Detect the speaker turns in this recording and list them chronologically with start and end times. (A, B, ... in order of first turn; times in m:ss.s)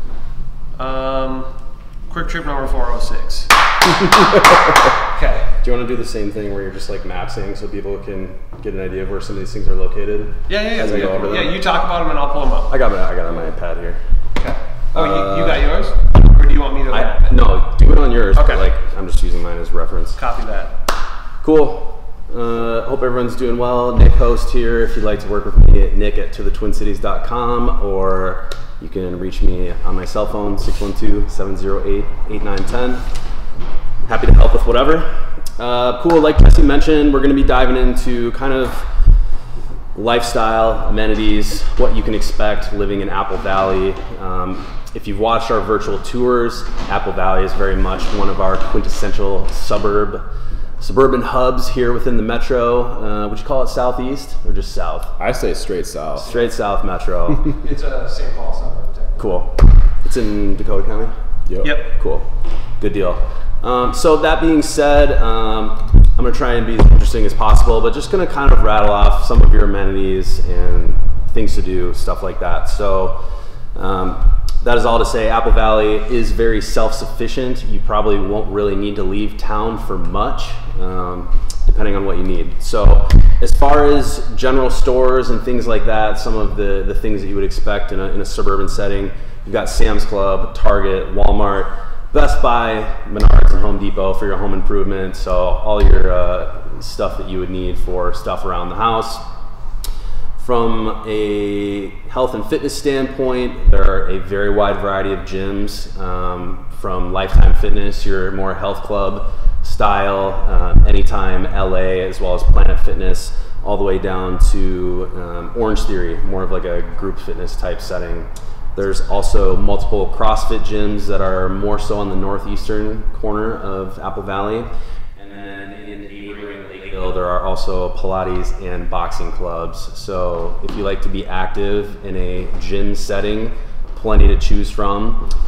0:00.8-0:01.6 A
0:02.1-0:03.6 A
0:05.1-0:05.6 A
0:05.6-0:11.6 B
0:10.5-0:12.8 A
0:10.9-0:11.5 C
0:12.7-0:14.0 B
0:14.4-0:17.4 A
0:14.9-0:15.7 B
0:16.9-0:20.2 B
0:18.3-0:18.6 A
0:20.2-0:20.8 A
0:21.4-0:33.2 B
0:34.0-0:39.3 B
0:39.9-0:50.2 B
0:50.8-0:55.2 B
0:55.2-0:56.3 C
0:56.2-0:57.6 B
0:56.2-0:56.5 A
0:57.5-0:59.3 A
0:59.2-1:01.1 B
1:01.4-1:01.7 C
1:01.6-1:01.9 A
1:01.6-1:39.2 B
1:40.4-2:15.3 B